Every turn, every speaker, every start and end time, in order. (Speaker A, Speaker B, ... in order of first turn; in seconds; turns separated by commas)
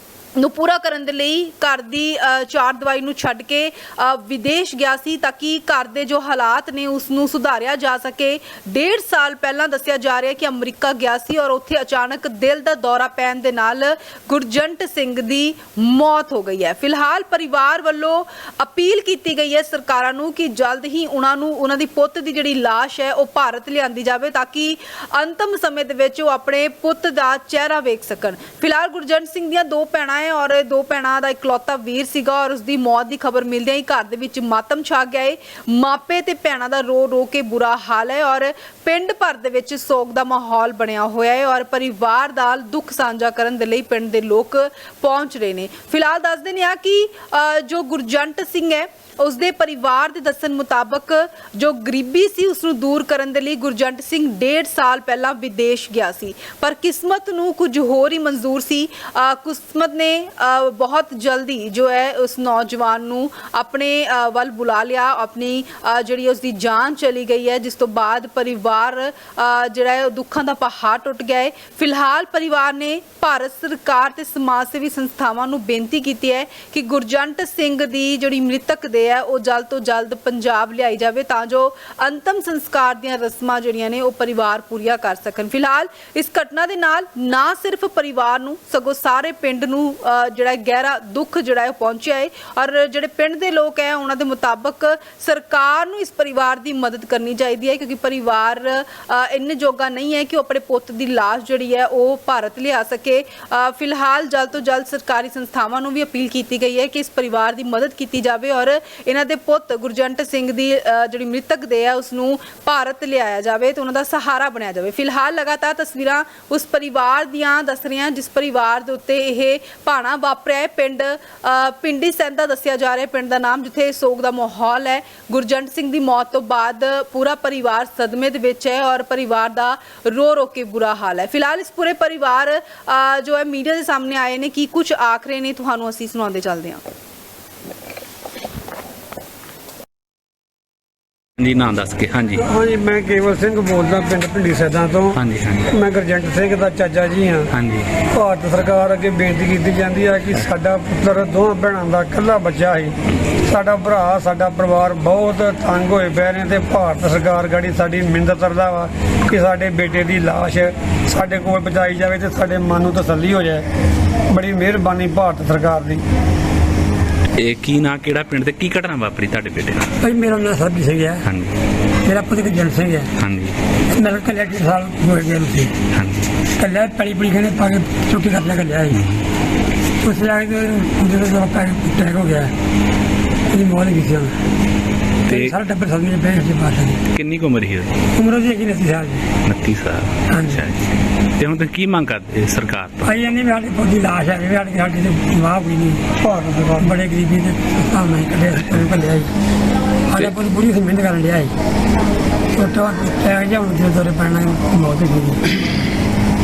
Speaker A: 0.3-136.8, Speaker B: 141.4-142.4, Speaker C: 142.4-145.2, Speaker B: 145.1-145.7, Speaker C: 145.7-163.7, Speaker B: 147.5-148.0, Speaker C: 164.3-166.0, Speaker B: 167.4-169.9, Speaker D: 170.0-171.2, Speaker B: 171.2-171.5, Speaker D: 172.0-173.1, Speaker B: 173.2-173.6, Speaker D: 173.9-175.8, Speaker B: 175.9-176.3, Speaker D: 176.6-179.1, Speaker B: 178.9-179.2, Speaker D: 180.0-182.5, Speaker D: 183.5-184.4, Speaker B: 185.3-185.5, Speaker D: 185.3-187.0, Speaker B: 187.1-187.9, Speaker D: 188.1-189.3, Speaker B: 189.4-193.2, Speaker D: 190.3-190.6, Speaker D: 193.1-196.2, Speaker C: 196.2-196.9, Speaker D: 196.8-199.3, Speaker D: 200.1-201.5, Speaker D: 202.5-205.7